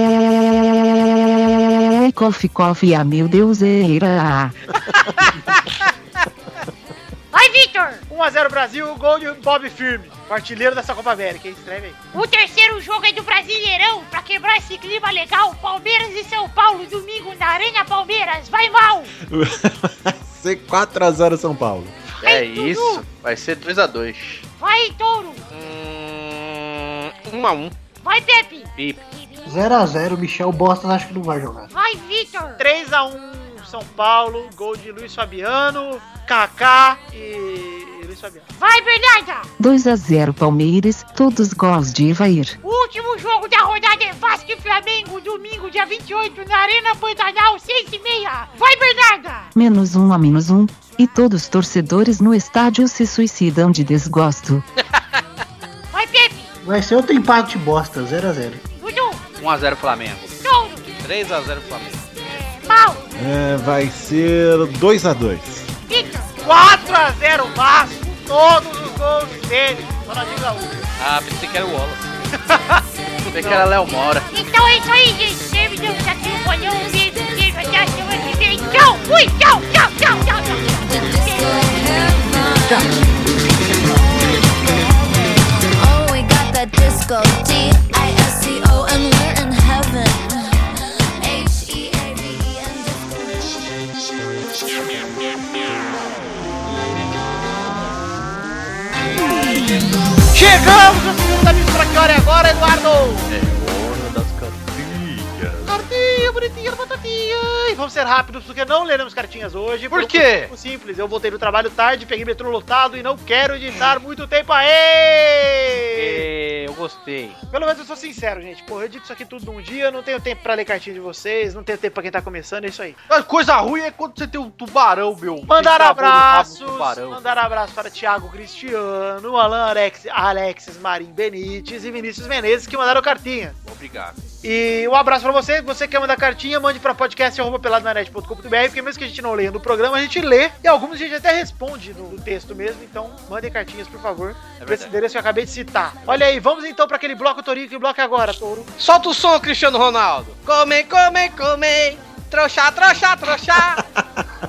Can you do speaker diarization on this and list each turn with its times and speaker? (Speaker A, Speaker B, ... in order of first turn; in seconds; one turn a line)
Speaker A: 1.9-4.5
Speaker B: 7.3-8.0
Speaker C: 8.1-12.1
Speaker B: 12.1-19.1
Speaker D: 19.2-21.9
Speaker E: 22.2-24.4
Speaker B: 22.2-23.1
Speaker B: 24.6-25.4
Speaker F: 25.5-27.7
Speaker B: 28.0-29.5
Speaker G: 29.4-31.7
Speaker B: 31.7-32.6
Speaker C: 32.6-38.5
Speaker B: 38.6-39.5
Speaker A: 39.6-42.5
Speaker B: 42.6-49.5
Speaker A: 49.5-54.6
Speaker B: 55.9-56.5
Speaker G: 56.6-58.6
Speaker B: 58.8-59.2
Speaker E: 59.4-60.4
Speaker B: 60.4-61.0
Speaker F: 61.0-62.0
Speaker B: 62.2-63.1
Speaker D: 63.1-65.7
Speaker B: 65.9-66.4
Speaker C: 66.4-70.8
Speaker F: 71.0-72.1
Speaker E: 73.3-74.3
Speaker B: 74.3-82.0
Speaker H: 80.8-83.0
Speaker G: 82.6-83.0
Speaker H: 84.1-90.7
Speaker H: 91.2-93.5
Speaker C: 100.3-103.3
Speaker E: 103.3-105.7
Speaker C: 105.7-116.2
Speaker E: 109.9-110.5
Speaker E: 116.0-117.4
Speaker C: 117.5-123.0
Speaker E: 123.1-127.2
Speaker C: 125.5-133.6
Speaker E: 133.6-134.2
Speaker C: 134.4-148.7
Speaker E: 144.6-144.9
Speaker F: 148.8-153.8
Speaker D: 153.8-154.2